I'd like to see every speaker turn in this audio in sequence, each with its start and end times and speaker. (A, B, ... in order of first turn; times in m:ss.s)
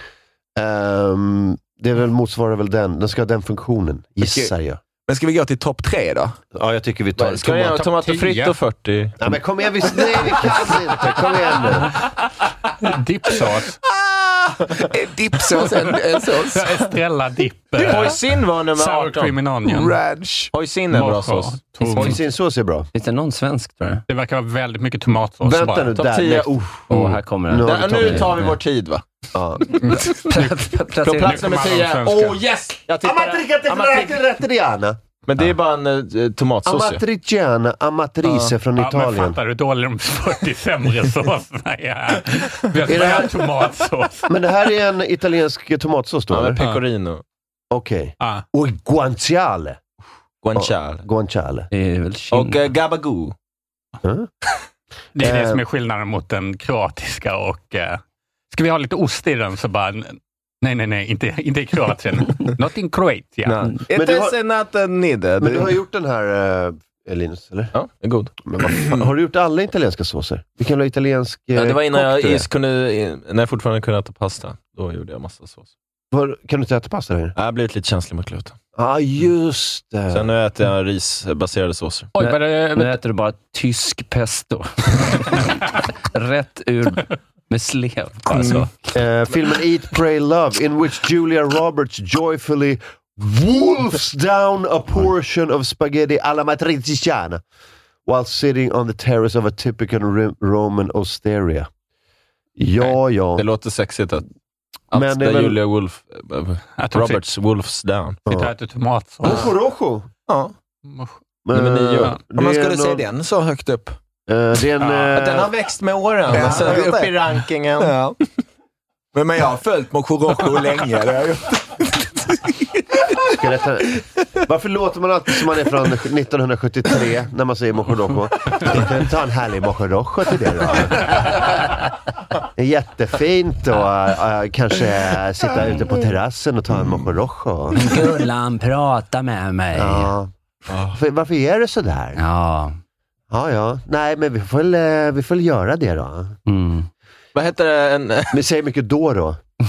0:00.6-0:04.8 A
0:04.2-0:04.5 B
0:05.1-0:06.4 B
0:06.5-0:07.8 A
0:07.2-0:09.1 C
0:07.8-0:08.6 D
0:09.2-0:11.9 A
0:12.8-0:13.8 D
0:13.9-0:16.7 B
0:16.4-0:18.2 D
0:17.8-0:19.4 C
0:18.7-0:20.0 D
0:19.6-0:20.5 B
0:20.5-0:22.2 C
0:20.9-0:22.2 D
0:21.9-0:22.9 A
0:22.9-0:24.0 E
0:24.1-0:25.9 D
0:25.4-0:26.9 A
0:25.9-0:26.5 C
0:26.9-0:28.5 E
0:27.5-0:28.4 A
0:27.6-0:29.0 C
0:29.3-0:29.9 A
0:30.2-0:31.5 E
0:31.0-0:34.2 C
0:31.2-0:32.4 D
0:33.0-0:35.0 A
0:35.2-0:37.0 C
0:36.6-0:39.4 A
0:38.8-0:44.3 D
0:42.9-0:43.5 A
0:44.3-0:46.6 A
0:46.3-0:47.2 C
0:47.7-0:49.8 A
0:50.4-0:51.0 C
0:50.6-0:51.7 A
0:51.7-0:52.7 E
0:52.3-0:53.3 C
0:54.0-0:54.3 A
0:55.1-1:03.7 D
0:55.2-0:55.6 A
1:03.4-1:05.7 C
1:03.9-1:04.3 A
1:05.4-1:07.7 A
1:07.7-1:08.3 C
1:08.4-1:12.5 A
1:11.5-1:15.7 C
1:16.1-1:17.4 A
1:17.4-1:18.5 C
1:18.8-1:20.3 A
1:20.1-1:22.1 C
1:22.2-1:22.9 D
1:22.2-1:28.7 E
1:28.3-1:28.7 B
1:28.9-1:37.4 A
1:38.0-1:41.7 A
1:42.6-1:43.4 A
1:42.8-1:44.2 C
1:44.9-1:48.2 C
1:44.9-1:45.6 A
1:46.8-1:47.2 D
1:48.3-1:49.5 D
1:49.2-1:50.1 A
1:50.3-1:50.5 C
1:50.9-1:51.1 D
1:51.4-1:53.0 A
1:51.5-1:52.2 C
1:52.4-1:54.0 B
1:54.3-1:55.6 A
1:54.8-1:57.9 C
1:56.3-1:58.2 B
1:56.3-1:56.9 A
1:59.1-2:03.3 B
2:03.3-2:11.5 A
2:12.5-2:17.9 A
2:17.7-2:20.1 E
2:19.7-2:20.3 A
2:20.9-2:22.2 A
2:22.1-2:22.8 E
2:23.3-2:26.4 A
2:26.5-2:26.9 E
2:27.3-2:28.4 C
2:28.3-2:29.4 A